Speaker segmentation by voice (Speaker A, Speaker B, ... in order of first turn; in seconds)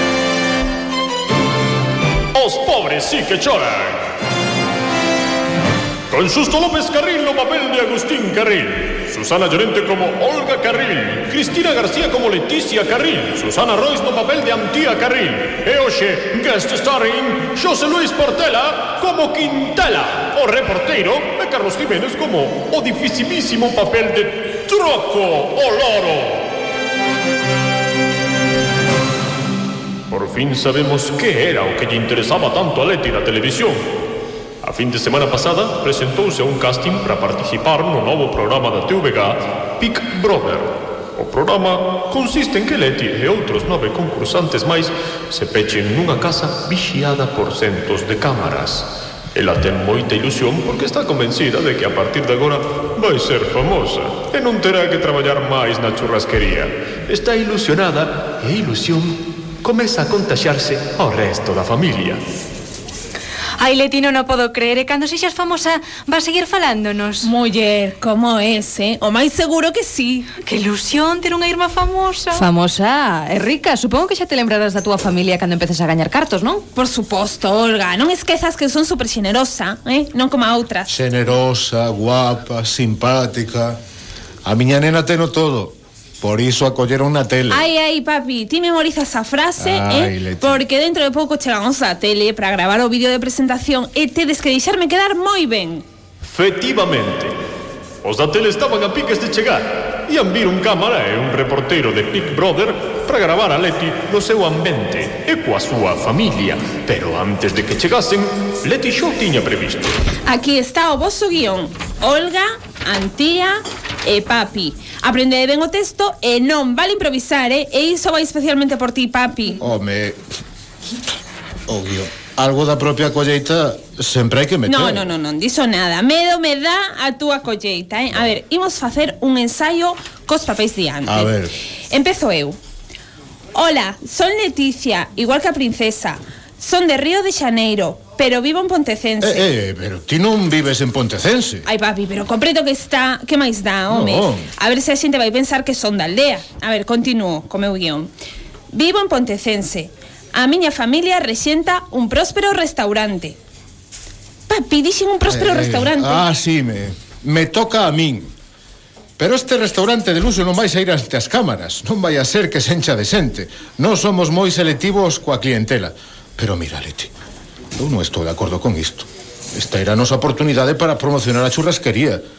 Speaker A: 2.3-4.1, 6.1-26.4, 30.1-33.9, 34.6-62.2, 96.2-97.3, 98.0-109.9
Speaker B: 63.6-67.3, 70.4-72.4
Speaker C: 67.2-70.3, 76.8-80.9, 87.5-95.8, 110.2-119.6, 124.7-131.3, 131.9-132.6, 133.5-139.5, 141.7-148.1, 148.7-153.4, 154.5-156.2
Speaker D: 72.3-76.6
Speaker E: 80.9-83.8, 84.4-87.7, 89.6-90.6, 119.6-120.2, 121.7-125.1, 131.1-131.5, 139.2-141.7, 143.9-144.5, 155.2-158.3, 159.2-167.1, 167.8-172.2